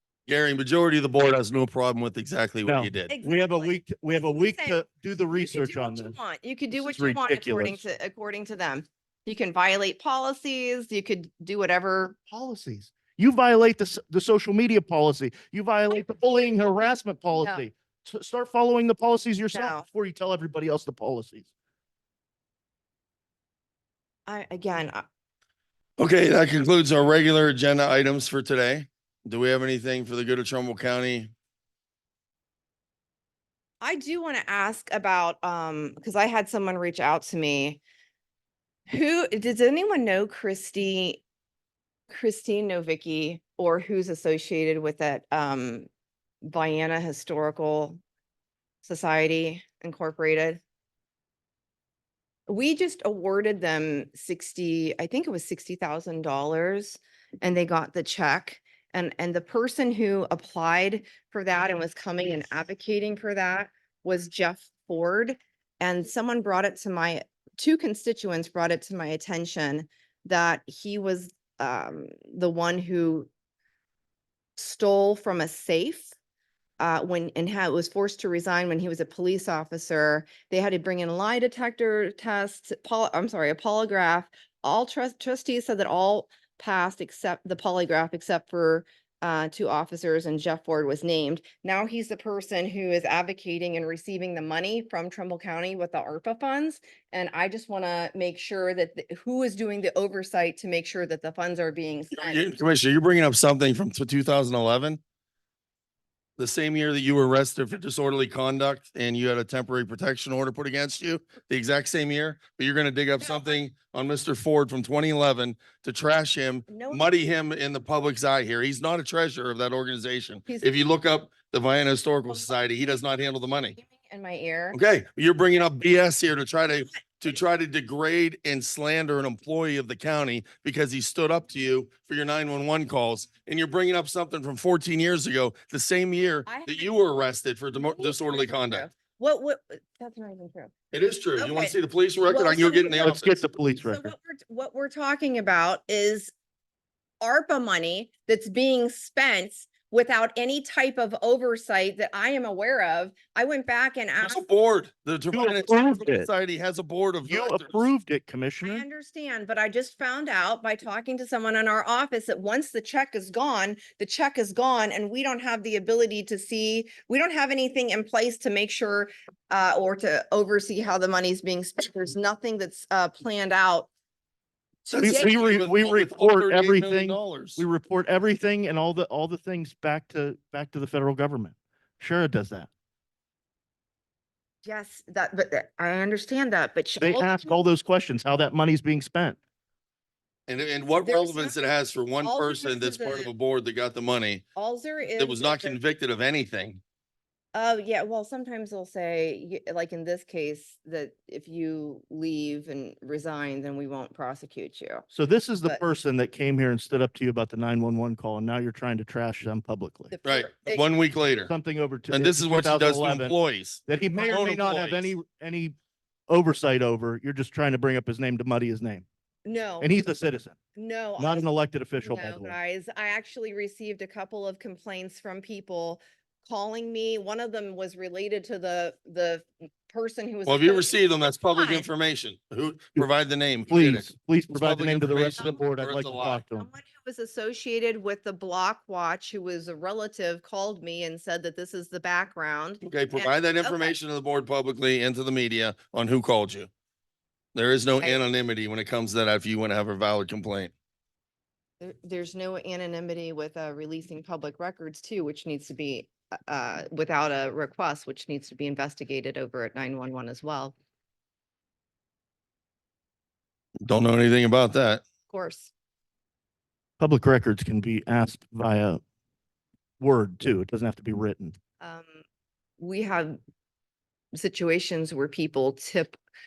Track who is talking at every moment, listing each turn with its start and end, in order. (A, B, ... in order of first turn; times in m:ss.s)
0:00.3-0:03.1 A
0:02.6-0:06.1 B
0:03.1-0:04.8 C
0:05.4-0:12.2 C
0:06.7-0:07.8 B
0:12.3-0:21.5 B
0:17.3-0:17.6 C
0:19.5-0:19.8 C
0:24.3-0:25.0 C
0:26.0-0:31.3 A
0:33.8-0:37.8 C
0:38.9-0:41.2 C
0:42.1-0:45.9 C
0:46.4-0:48.0 C
0:48.8-0:50.6 C
0:52.5-1:13.3 C
1:14.6-1:16.1 C
1:16.8-1:42.5 C
1:42.1-1:45.0 A
1:46.4-2:03.7 A
1:53.2-1:53.6 C
1:56.7-1:57.1 C
2:00.4-2:00.7 C
2:03.8-2:04.8 C
2:04.7-2:18.8 A
2:06.7-2:07.1 C
2:16.4-2:16.9 C
2:17.7-2:20.7 C
2:20.9-2:23.4 A
2:21.4-2:21.8 C
2:22.3-2:23.1 C
2:23.0-2:24.1 B
2:23.8-2:26.3 C
2:27.2-2:34.4 C
2:34.2-2:37.9 A
2:35.3-2:36.3 B
2:37.2-2:38.8 B
2:38.6-2:53.9 C
2:54.8-2:57.6 A
2:55.0-2:55.4 C
2:55.0-3:02.7 B
3:04.6-3:07.6 C
3:07.0-3:09.4 B
3:10.5-3:14.4 A
3:11.0-3:11.6 C
3:12.2-3:13.3 C
3:14.6-3:15.8 C
3:15.2-3:16.8 A
3:17.5-3:25.0 C
3:25.1-3:30.1 B
3:30.1-3:30.8 C
3:30.2-3:31.5 A
3:31.5-3:35.7 B
3:32.1-3:35.1 A
3:36.3-3:39.0 B
3:39.4-3:39.9 C
3:39.8-3:40.6 B
3:40.8-3:41.5 C
3:41.2-3:42.5 B
3:42.0-3:51.9 C
3:50.4-3:56.4 A
3:53.7-3:56.7 B
3:56.5-4:04.0 C
4:02.8-4:06.7 A
4:07.5-4:10.7 A
4:11.8-4:20.7 C
4:23.8-4:25.0 A
4:25.3-4:25.7 C
4:27.0-4:29.0 B
4:30.0-4:31.6 B
4:31.8-4:32.2 C
4:32.8-4:33.4 C
4:34.3-4:36.2 C